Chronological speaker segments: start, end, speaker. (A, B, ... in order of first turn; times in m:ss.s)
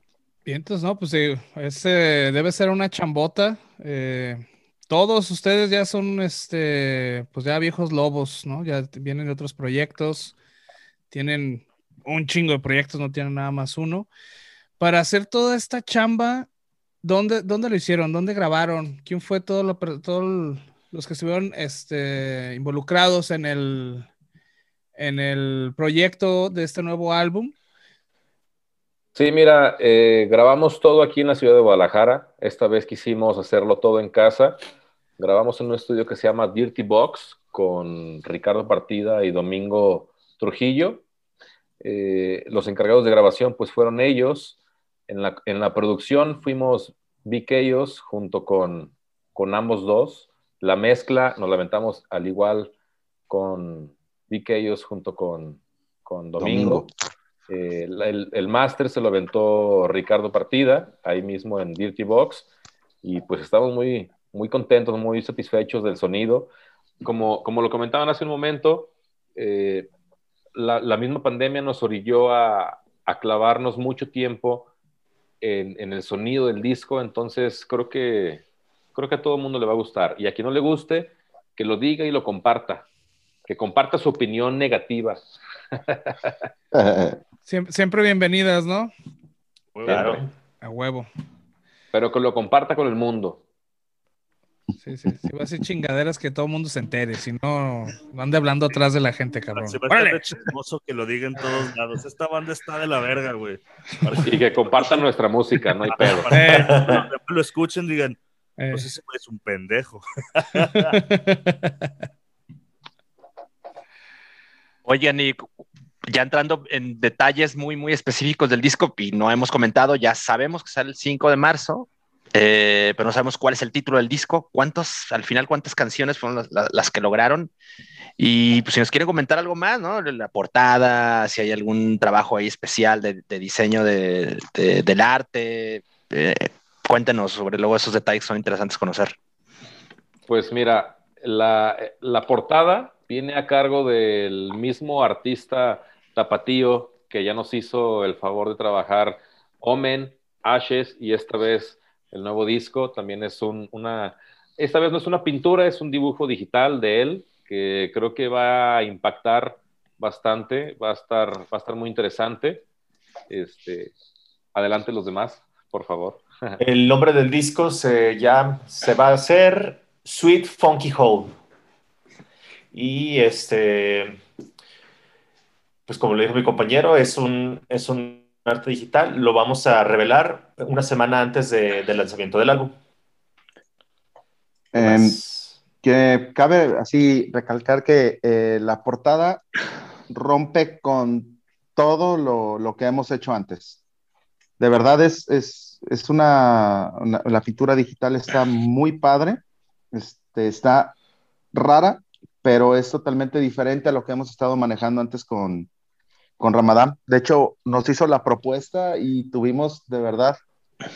0:00.5-0:10.4 A
0:11.1-0:14.1 A
0:14.8-0:16.5 A
0:17.0-0:24.1 A
0:25.0-0:27.6 A
0:29.2-0:34.6 B
0:35.2-0:41.0 B
0:41.8-0:44.6 B
0:45.1-0:52.7 B
0:53.3-0:56.9 B
0:56.4-0:56.9 C
0:57.5-1:02.5 B
1:03.0-1:09.9 B
1:10.6-1:14.7 B
1:15.4-1:18.4 B
1:19.0-1:22.9 B
1:23.5-1:25.2 B
1:25.7-1:26.3 B
1:26.7-1:27.2 C
1:27.5-1:28.9 A
1:29.8-1:30.2 D
1:29.9-1:30.3 E
1:30.6-1:31.1 A
1:31.9-1:33.4 B
1:34.8-1:40.2 A
1:39.6-1:45.0 D
1:44.2-1:46.4 B
1:45.9-1:48.2 D
1:46.3-1:46.8 A
1:46.5-1:47.1 E
1:48.6-1:48.9 A
1:48.7-1:51.0 D
1:50.6-1:51.9 A
1:54.8-1:55.5 F
1:56.0-2:07.5 F
2:08.2-2:19.2 F
2:20.3-2:42.6 B
2:43.3-2:43.9 B
2:44.5-2:46.6 B
2:46.6-2:51.4 E
2:52.7-2:54.2 E
2:55.9-3:02.7 E
3:04.7-3:05.2 C
3:04.8-3:05.6 E
3:05.8-3:09.4 C
3:10.1-3:13.8 C
3:14.6-3:21.0 C
3:21.5-3:25.7 C
3:26.4-3:30.4 C